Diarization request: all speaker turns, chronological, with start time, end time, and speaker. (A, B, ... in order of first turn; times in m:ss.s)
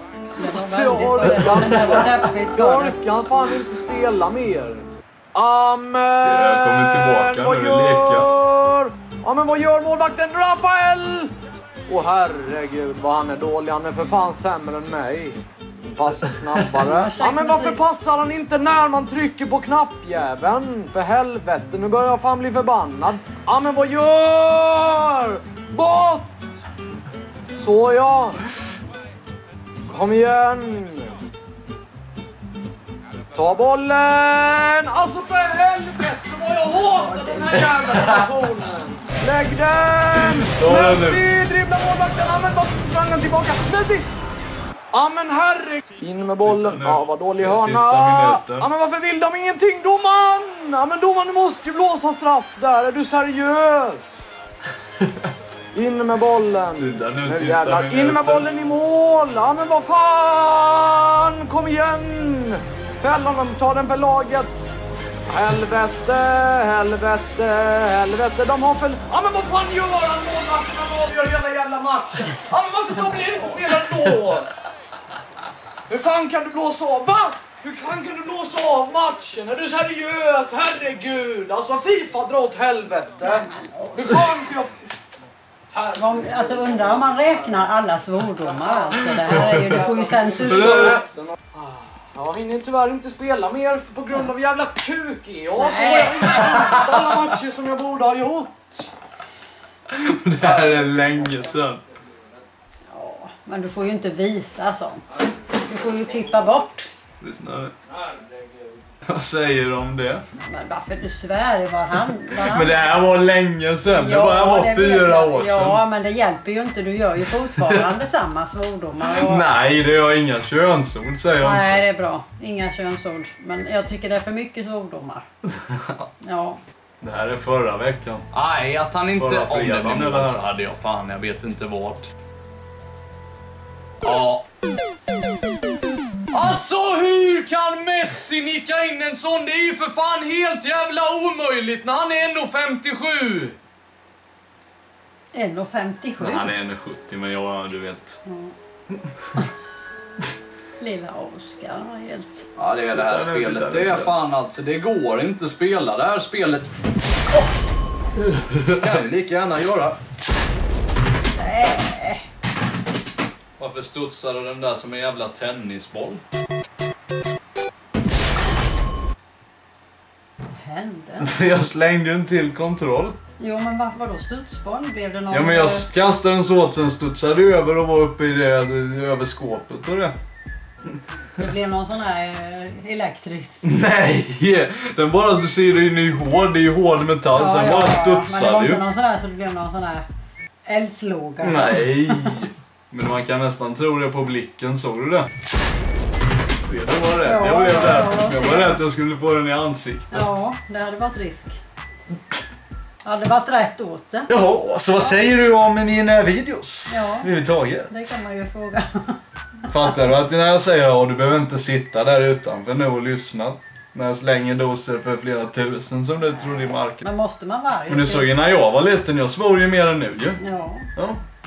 0:00.4-0:03.0 A
0:00.5-0:11.3 B
0:01.5-0:02.1 C
0:06.2-0:08.3 C
0:11.9-0:26.3 B
0:16.7-0:17.8 A
0:27.6-0:28.4 B
0:29.9-0:31.1 B
0:33.3-0:44.0 B
0:37.1-0:37.4 A
0:40.3-0:41.2 C
0:44.9-0:54.4 B
0:46.4-0:48.7 C
0:55.7-1:04.6 B
0:56.8-0:58.5 C
1:05.3-1:14.5 B
1:15.9-1:25.0 B
1:23.2-1:24.2 A
1:25.7-1:27.6 B
1:26.0-1:31.0 A
1:28.6-1:38.9 B
1:30.5-1:31.1 C
1:35.6-1:36.4 A
1:36.4-1:36.8 C
1:39.9-1:41.8 C
1:42.9-1:46.9 A
1:47.2-1:47.7 C
1:47.9-1:48.8 B
1:49.0-1:50.2 C
1:50.3-1:53.2 A
1:52.4-1:55.8 C
1:53.9-1:59.5 A
1:59.1-2:01.8 C
2:01.4-2:05.2 A
2:05.5-2:06.0 C
2:06.2-2:06.6 A
2:07.0-2:08.3 C
2:08.4-2:10.4 B
2:09.1-2:10.8 C
2:11.5-2:12.0 C
2:14.0-2:14.4 C
2:16.3-2:23.6 B
2:25.3-2:26.5 A
2:26.2-2:28.2 C
2:28.3-2:28.5 A
2:30.8-2:32.5 A
2:32.6-2:36.7 B
2:32.9-2:34.2 C
2:38.2-2:39.0 C
2:38.8-2:40.0 B
2:41.3-2:42.3 A
2:43.6-2:46.2 C
2:50.5-2:51.3 A
2:51.2-2:53.2 C
2:53.4-2:55.9 A
2:55.3-3:00.2 C
3:01.4-3:03.7 A
3:03.6-3:08.8 C
3:07.3-3:10.0 A
3:10.7-3:12.4 A
3:11.4-3:15.3 C
3:16.6-3:20.3 C
3:17.2-3:18.8 A
3:20.1-3:21.6 A
3:23.0-3:24.3 A
3:24.3-3:28.1 C
3:26.9-3:27.3 A
3:27.9-3:29.2 A
3:29.7-3:37.1 C
3:37.0-3:38.3 A
3:37.9-3:40.4 C
3:40.4-3:40.9 A
3:41.0-3:41.2 C